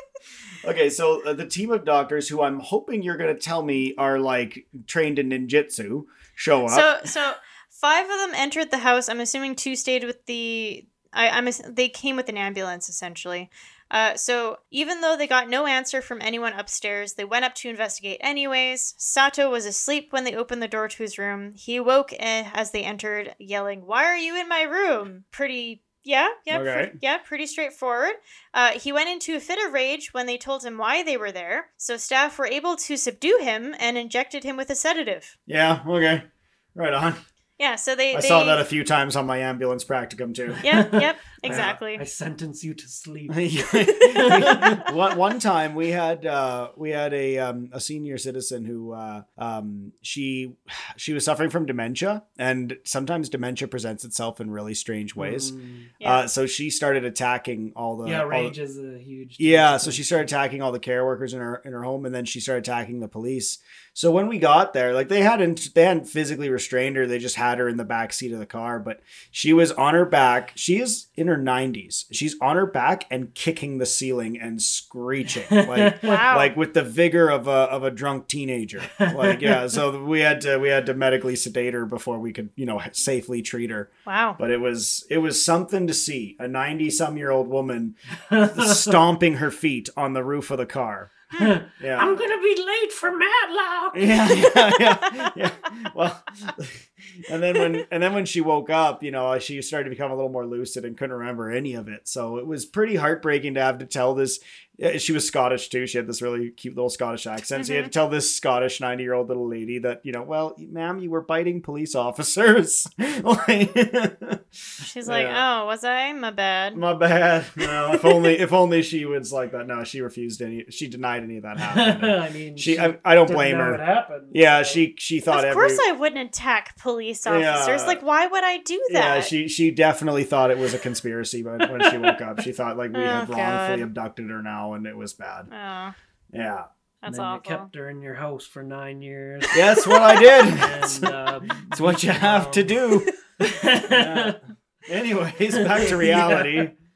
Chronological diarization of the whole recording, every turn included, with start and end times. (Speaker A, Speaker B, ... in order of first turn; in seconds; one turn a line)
Speaker A: 0.6-6.9
Speaker B: 6.7-35.3
Speaker A: 26.5-27.0
Speaker A: 35.5-37.2
Speaker B: 37.6-38.6
Speaker A: 38.1-40.7
Speaker C: 40.5-44.9
Speaker B: 40.6-42.0
Speaker A: 41.4-41.8
Speaker A: 43.3-58.5
Speaker C: 55.2-55.9
Speaker C: 58.0-60.3
Speaker A: 59.4-87.9
Speaker C: 75.5-76.2
Speaker B: 76.0-76.5
Speaker C: 79.0-79.6
Speaker B: 84.0-84.4
Speaker C: 88.3-89.0
Speaker A: 88.5-91.2
Speaker C: 91.4-94.3
Speaker A: 91.8-92.2
Speaker A: 93.9-115.4
Speaker B: 94.7-95.2
Speaker B: 107.5-107.9
Speaker B: 114.8-116.8
Speaker A: 116.7-125.8
Speaker B: 117.9-118.3
Speaker C: 121.6-124.8
Speaker B: 125.3-129.3
Speaker A: 127.2-128.0
Speaker A: 128.9-135.5
Speaker C: 131.8-132.1
Speaker B: 132.9-133.8
Speaker B: 135.5-135.9
Speaker A: 136.3-136.7
Speaker B: 137.0-137.7
Speaker C: 137.1-139.9
Speaker A: 139.5-141.1
Speaker B: 139.8-140.4
Speaker C: 140.4-144.4
Speaker A: 141.7-143.1
Speaker A: 143.8-146.7
Speaker C: 145.5-146.7